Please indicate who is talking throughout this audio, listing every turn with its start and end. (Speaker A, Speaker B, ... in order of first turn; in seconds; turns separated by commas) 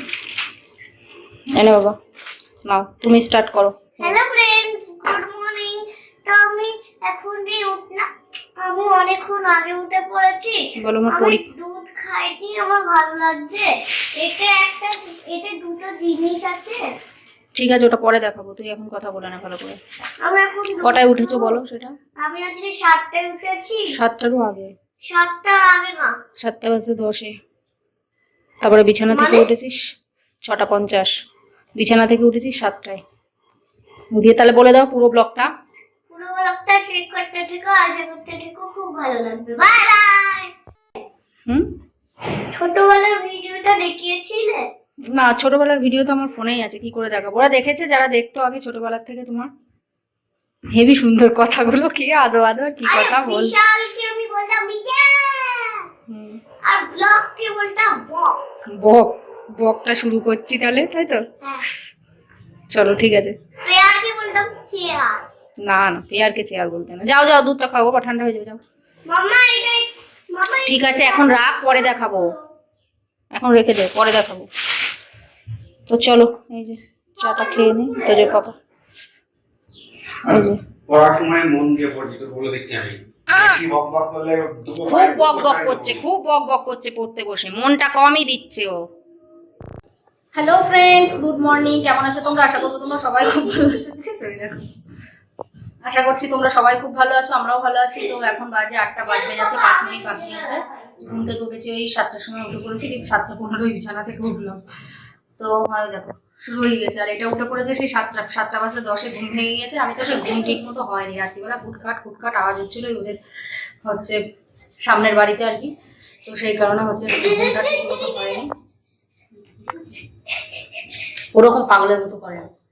Speaker A: 1.5-2.0, Speaker A: 2.6-4.2, Speaker B: 4.0-16.9, Speaker A: 10.8-11.4, Speaker A: 17.6-19.8, Speaker B: 20.2-21.6, Speaker A: 20.8-21.9, Speaker B: 22.2-24.0, Speaker A: 23.9-24.7, Speaker B: 25.0-26.2, Speaker A: 26.4-27.4, Speaker A: 28.6-29.9, Speaker B: 29.1-29.5, Speaker A: 30.4-31.1, Speaker A: 31.8-33.0, Speaker A: 34.1-35.5, Speaker B: 36.1-40.5, Speaker A: 41.5-41.7, Speaker B: 42.5-44.7, Speaker A: 45.1-49.5, Speaker A: 50.7-53.5, Speaker B: 52.8-55.9, Speaker A: 56.1-56.4, Speaker B: 56.6-58.4, Speaker A: 58.7-61.2, Speaker B: 61.4-61.7, Speaker A: 62.7-63.4, Speaker B: 63.6-65.2, Speaker A: 65.6-68.6, Speaker B: 69.1-72.4, Speaker A: 70.7-72.3, Speaker A: 73.3-74.5, Speaker A: 75.9-78.6, Speaker B: 77.2-78.4, Speaker A: 80.3-80.6, Speaker C: 80.9-86.0, Speaker A: 83.3-83.6, Speaker A: 84.8-88.9, Speaker A: 90.3-94.7, Speaker A: 95.8-104.6, Speaker B: 99.1-101.0, Speaker A: 105.4-113.2, Speaker A: 113.8-114.2, Speaker A: 114.8-115.7, Speaker A: 116.3-118.5, Speaker A: 121.3-122.5